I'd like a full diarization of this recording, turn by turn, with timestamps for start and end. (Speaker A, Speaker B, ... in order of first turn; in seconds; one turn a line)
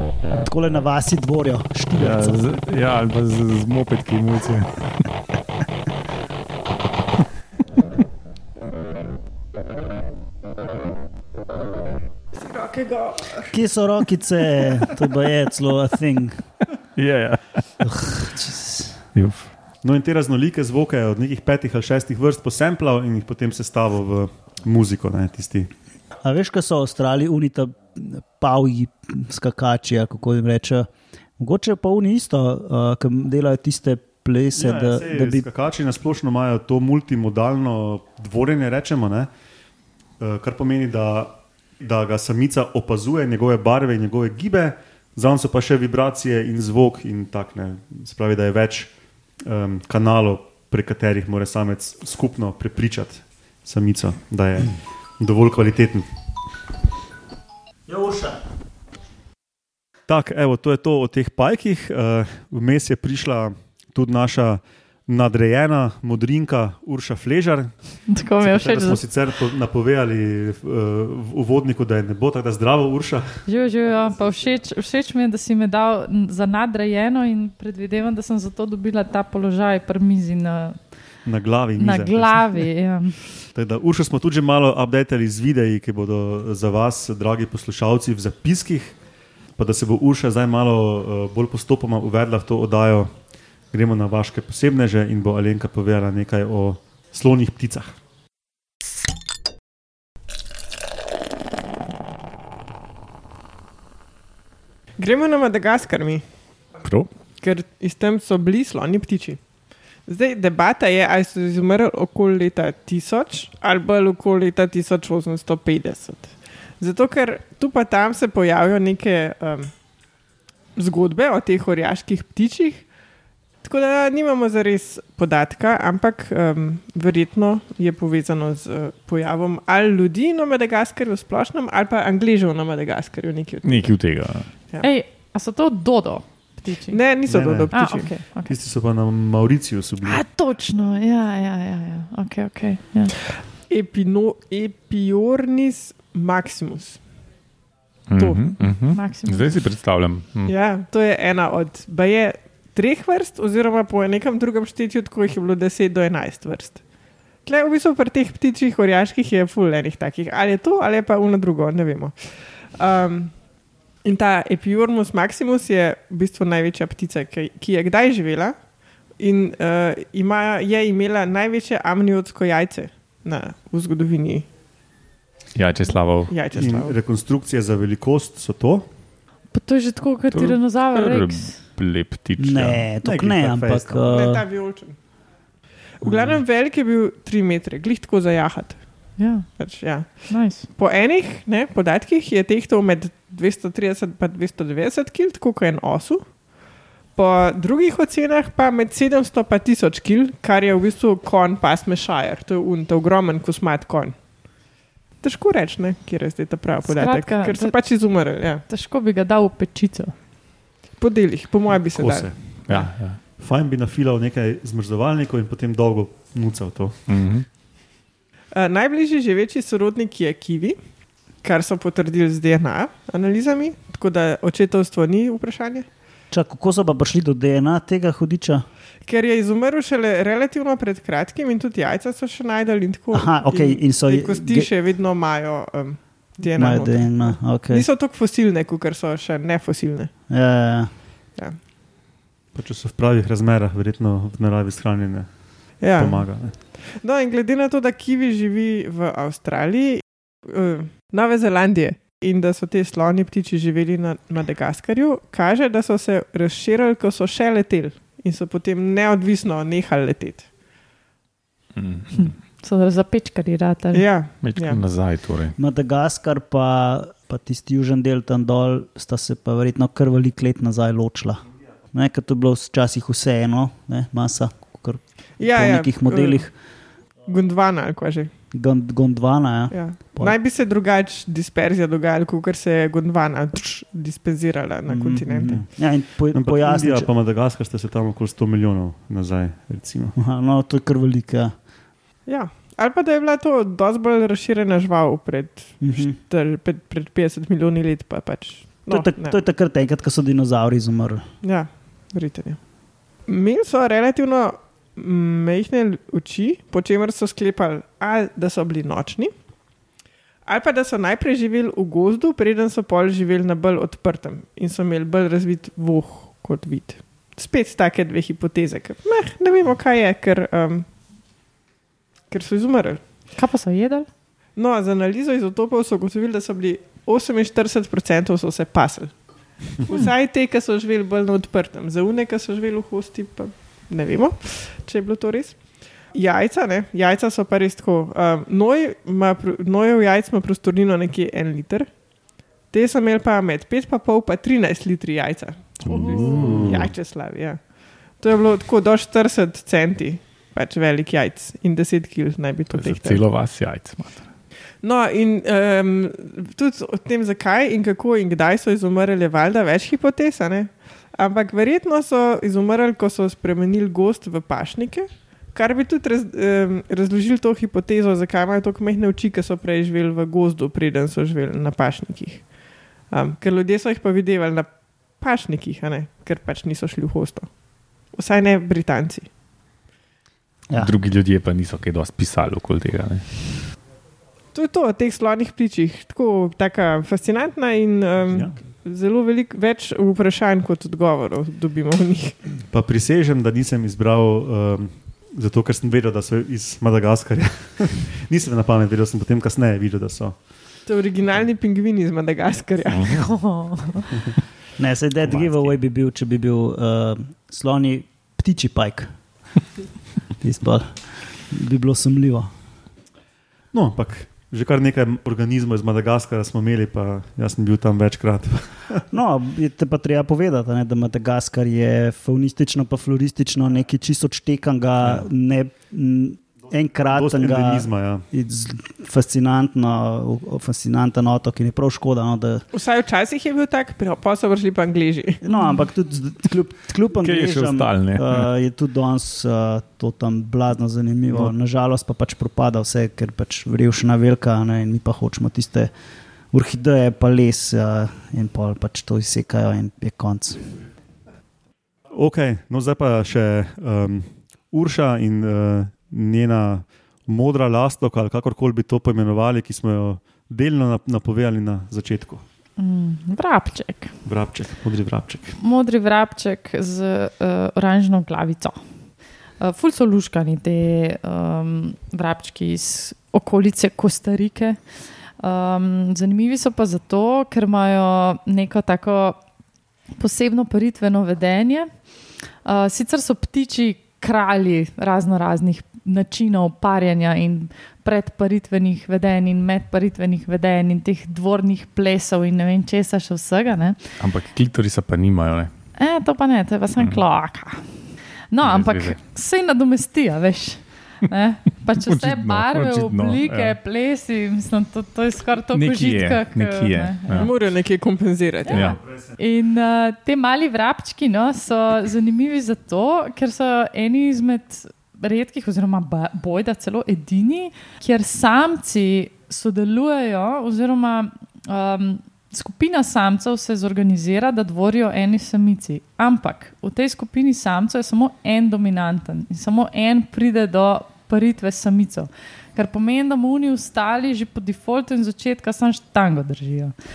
Speaker A: 0.4-2.6
Speaker B: 1.9-4.9
Speaker C: 12.3-13.5
Speaker A: 13.5-16.5
Speaker B: 17.0-17.8
Speaker A: 17.8-19.0
Speaker B: 19.1-19.5
Speaker D: 19.8-25.7
Speaker A: 26.2-35.5
Speaker D: 34.6-39.3
Speaker D: 40.2-48.9
Speaker D: 49.5-56.1
Speaker A: 57.9-58.4
Speaker D: 60.1-67.7
Speaker E: 68.1-69.0
Speaker D: 68.4-73.5
Speaker E: 73.5-80.8
Speaker D: 81.2-82.8
Speaker E: 81.8-83.2
Speaker D: 83.4-89.0
Speaker D: 89.5-93.1
Speaker D: 93.7-97.9
Speaker C: 105.0-106.2
Speaker B: 106.8-107.1
Speaker C: 107.4-109.4
Speaker C: 110.0-119.7
Speaker C: 120.8-122.9
Speaker C: 123.6-134.9
Speaker B: 133.6-134.5
Speaker E: 134.8-137.0
Speaker C: 136.9-138.1
Speaker D: 137.3-140.2
Speaker E: 137.7-138.5
Speaker E: 140.1-143.2
Speaker C: 143.7-147.0
Speaker B: 148.1-150.5
Speaker C: 148.2-148.7
Speaker E: 148.9-149.6
Speaker C: 150.5-156.8
Speaker C: 157.4-163.4
Speaker C: 164.0-174.5
Speaker B: 175.6-176.3
Speaker C: 176.3-177.0
Speaker D: 176.6-178.9
Speaker E: 179.5-181.6
Speaker B: 180.3-182.8
Speaker A: 182.4-184.4
Speaker D: 183.0-184.1
Speaker C: 184.1-185.0
Speaker C: 186.0-196.4
Speaker E: 189.2-190.7
Speaker C: 197.2-204.2
Speaker C: 205.2-208.6
Speaker E: 206.8-208.1
Speaker E: 208.7-210.1
Speaker C: 211.0-212.9
Speaker D: 211.9-217.0
Speaker B: 212.7-213.2
Speaker B: 217.1-217.5
Speaker C: 218.5-220.8
Speaker C: 221.4-225.9
Speaker A: 226.3-228.6
Speaker C: 229.1-240.1
Speaker A: 233.1-234.7
Speaker A: 236.6-237.9
Speaker A: 240.3-240.9
Speaker D: 242.6-246.6
Speaker C: 245.8-260.5
Speaker B: 261.8-262.3
Speaker E: 262.1-264.1
Speaker C: 263.9-264.8
Speaker B: 264.4-265.6
Speaker A: 265.6-276.5
Speaker C: 275.4-276.5
Speaker C: 277.2-278.3
Speaker A: 278.5-280.4
Speaker C: 279.7-285.7
Speaker A: 284.9-287.1
Speaker D: 285.5-285.7
Speaker D: 286.3-290.2
Speaker A: 290.2-291.6
Speaker C: 292.3-299.4
Speaker A: 295.8-296.2
Speaker A: 298.9-301.2
Speaker C: 301.4-302.6
Speaker C: 303.3-309.3
Speaker C: 310.4-320.9
Speaker C: 322.3-323.1
Speaker E: 323.4-324.1
Speaker C: 324.6-329.3
Speaker C: 329.8-342.0
Speaker C: 342.7-353.2
Speaker B: 345.8-346.9
Speaker B: 352.7-354.3
Speaker C: 354.8-372.5
Speaker C: 373.1-377.5
Speaker C: 378.1-379.3
Speaker B: 380.8-383.5
Speaker C: 384.5-392.4
Speaker D: 388.3-388.6
Speaker D: 392.7-400.4
Speaker C: 400.9-403.2
Speaker E: 403.1-404.1
Speaker A: 404.8-409.1
Speaker A: 410.4-412.5
Speaker D: 413.7-419.1
Speaker A: 419.1-432.6
Speaker D: 427.1-428.2
Speaker C: 432.7-435.4
Speaker A: 435.4-445.9
Speaker E: 435.5-435.8
Speaker B: 437.2-438.5
Speaker A: 446.5-450.8
Speaker D: 452.1-462.4
Speaker E: 462.8-464.1
Speaker D: 464.2-465.6
Speaker E: 465.6-468.8
Speaker E: 469.6-479.4
Speaker E: 480.2-494.2
Speaker B: 494.2-495.7
Speaker E: 496.0-498.0
Speaker B: 497.0-497.2
Speaker E: 498.5-507.5
Speaker B: 498.6-499.2
Speaker B: 502.1-503.8
Speaker B: 505.7-507.6
Speaker C: 507.3-508.9
Speaker E: 508.7-536.9
Speaker B: 508.7-509.0